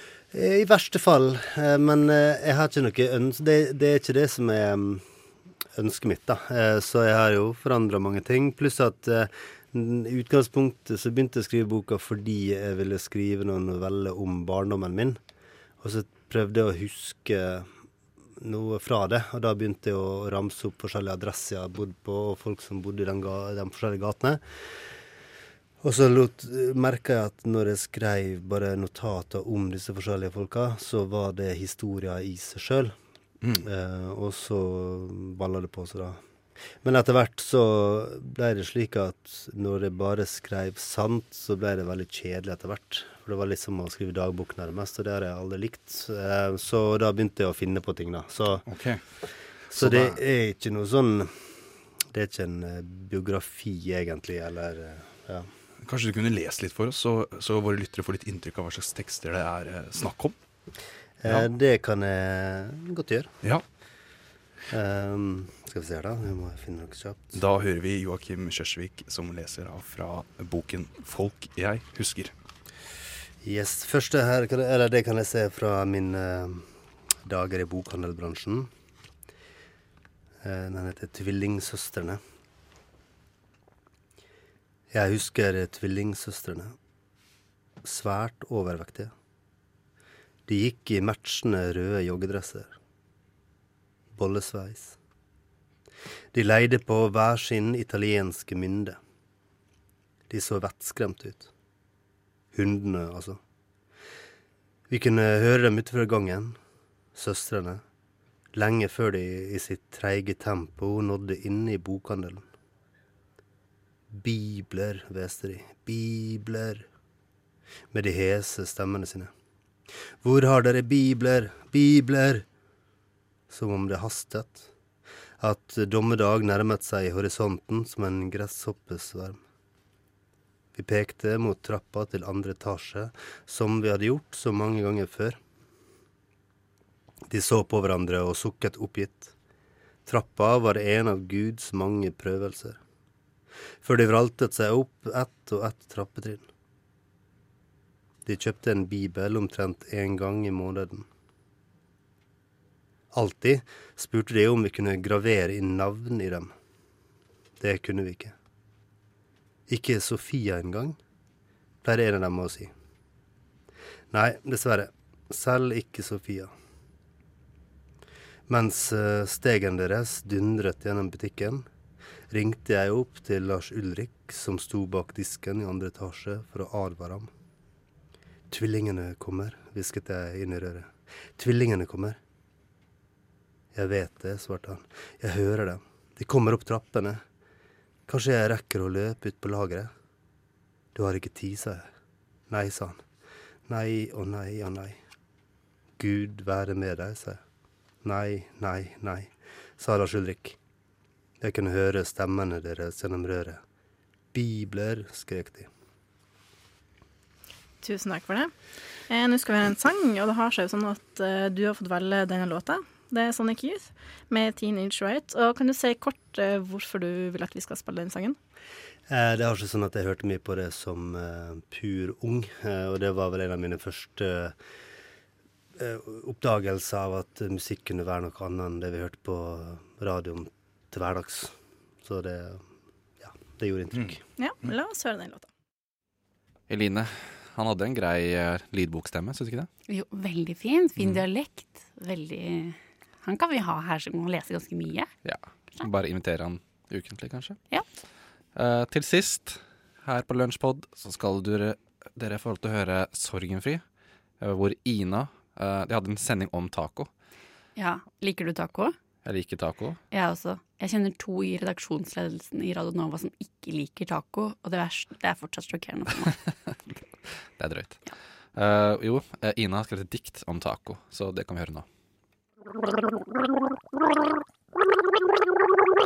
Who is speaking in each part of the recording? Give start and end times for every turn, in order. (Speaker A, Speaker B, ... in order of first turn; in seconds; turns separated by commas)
Speaker A: 0.3-5.0, Speaker A: 5.8-15.2, Speaker A: 15.8-17.7, Speaker A: 18.4-24.9, Speaker A: 25.8-32.9, Speaker A: 33.6-36.2, Speaker A: 36.8-48.9, Speaker B: 48.6-49.0, Speaker B: 49.7-50.2, Speaker A: 49.7-51.5, Speaker A: 52.1-55.5, Speaker B: 55.8-60.4, Speaker A: 61.2-63.3, Speaker A: 64.7-67.4, Speaker B: 67.3-72.3, Speaker A: 73.4-76.7, Speaker A: 77.2-78.7, Speaker A: 80.4-82.2, Speaker A: 84.9-86.7, Speaker A: 87.8-89.1, Speaker A: 90.5-92.7, Speaker A: 94.1-95.0, Speaker A: 96.3-99.0, Speaker A: 100.3-101.5, Speaker A: 102.5-103.4, Speaker A: 104.9-106.6, Speaker A: 107.1-107.8, Speaker A: 108.5-112.5, Speaker A: 114.1-116.9, Speaker A: 117.9-119.3, Speaker A: 120.2-122.4, Speaker A: 123.5-124.7, Speaker A: 125.4-129.4, Speaker A: 130.7-135.4, Speaker A: 137.3-139.3, Speaker A: 140.1-142.8, Speaker A: 143.8-146.4, Speaker A: 148.2-151.1, Speaker A: 153.1-156.5, Speaker A: 157.6-158.3, Speaker A: 159.7-161.0, Speaker A: 161.8-162.7, Speaker A: 164.1-166.5, Speaker A: 168.5-171.7, Speaker A: 172.3-177.3, Speaker A: 178.5-182.2, Speaker A: 183.7-187.2, Speaker A: 188.1-189.9, Speaker A: 190.9-191.9, Speaker A: 192.5-193.0, Speaker A: 193.7-195.0, Speaker A: 196.0-197.4, Speaker A: 198.0-200.6, Speaker A: 201.4-203.6, Speaker A: 204.3-205.7, Speaker C: 207.8-208.5, Speaker C: 209.1-218.4, Speaker A: 219.1-224.6, Speaker A: 225.8-232.6, Speaker A: 233.2-234.2, Speaker B: 233.9-234.7, Speaker C: 234.4-235.5, Speaker D: 236.7-239.7, Speaker E: 239.9-245.1, Speaker D: 245.2-247.7, Speaker D: 248.5-253.8, Speaker D: 254.4-257.1, Speaker E: 257.8-259.0, Speaker D: 259.2-260.0, Speaker E: 260.1-266.5, Speaker D: 267.6-271.9